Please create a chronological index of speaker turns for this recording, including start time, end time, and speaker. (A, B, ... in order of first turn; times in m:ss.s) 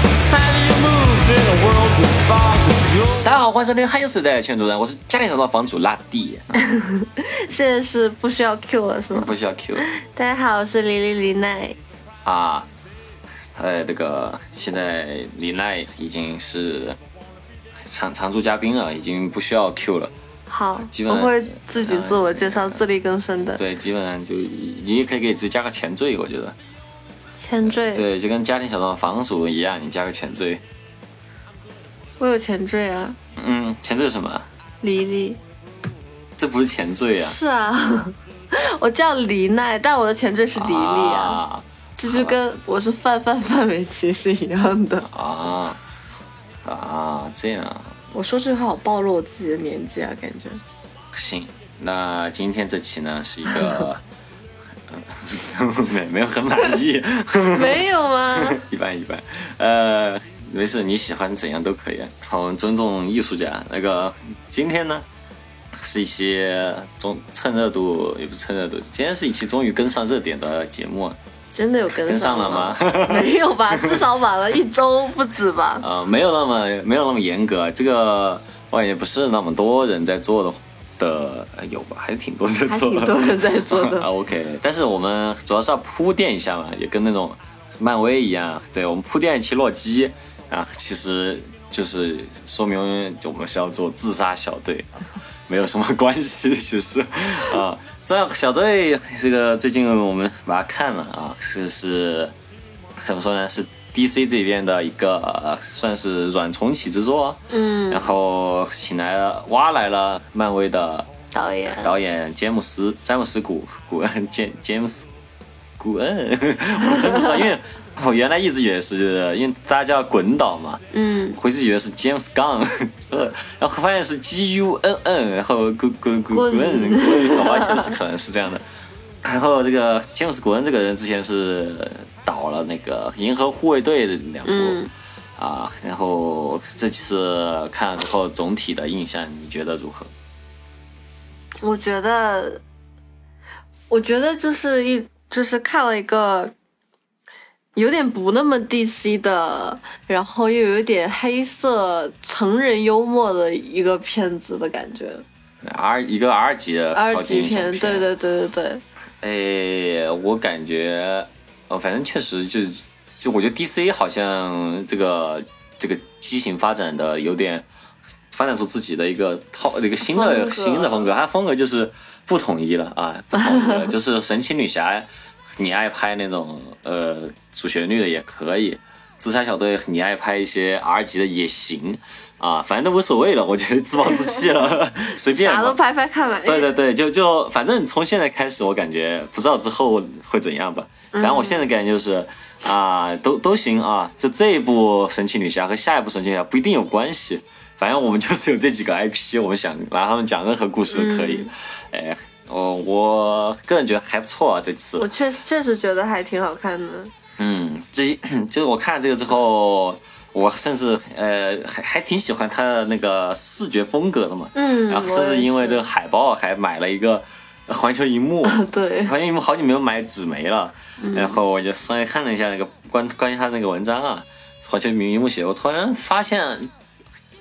0:00.2-0:03.4 A
0:03.2-0:06.5 B
0:06.6-0:11.8 C
0:09.1-0:09.9 B
0:12.2-0:12.7 B
0:13.6-0:17.0 B
0:17.8-0:20.1 B
0:20.5-0:23.6 C
0:20.8-0:22.8 B
0:23.5-0:26.6 B
0:27.4-0:28.0 C
0:27.6-0:30.6 B
0:32.2-0:33.2 C
0:33.4-0:34.5 B
0:34.8-0:35.4 C
0:36.4-0:37.4 B
0:37.2-0:41.4 C
0:40.5-0:42.4 B
0:42.0-0:45.1 C
0:45.1-0:45.8 B
0:46.6-0:48.0 B
0:48.1-0:50.6 C
0:51.1-0:54.0 B
0:54.9-1:05.1 B
0:57.5-0:58.6 C
1:05.8-1:11.2 B
1:11.5-1:15.8 C
1:12.0-1:14.0 B
1:15.8-1:34.9 B
1:22.6-1:24.1 C
1:35.5-1:42.3 B
1:43.0-1:51.1 B
1:47.5-1:48.1 C
1:51.3-1:51.9 C
1:51.8-1:55.1 B
1:55.8-2:00.8 B
2:00.9-2:01.4 C
2:01.4-2:08.6 B
2:06.3-2:08.0 C
2:09.2-2:14.8 B
2:14.4-2:14.9 C
2:15.4-2:20.1 B
2:21.6-2:22.6 C
2:23.9-2:26.5 C
2:27.8-2:35.2 C
2:35.6-2:38.1 B
2:36.9-2:38.8 C
2:39.2-2:47.6 B
2:48.3-3:05.8 B
2:50.0-2:51.1 C
3:05.3-3:06.7 C
3:06.4-3:25.1 B
3:11.1-3:11.7 C
3:20.9-3:21.5 C
3:25.0-3:27.1 C
3:27.4-3:46.7 B
3:34.6-3:35.8 C
3:38.4-3:39.1 C
3:41.0-3:41.4 C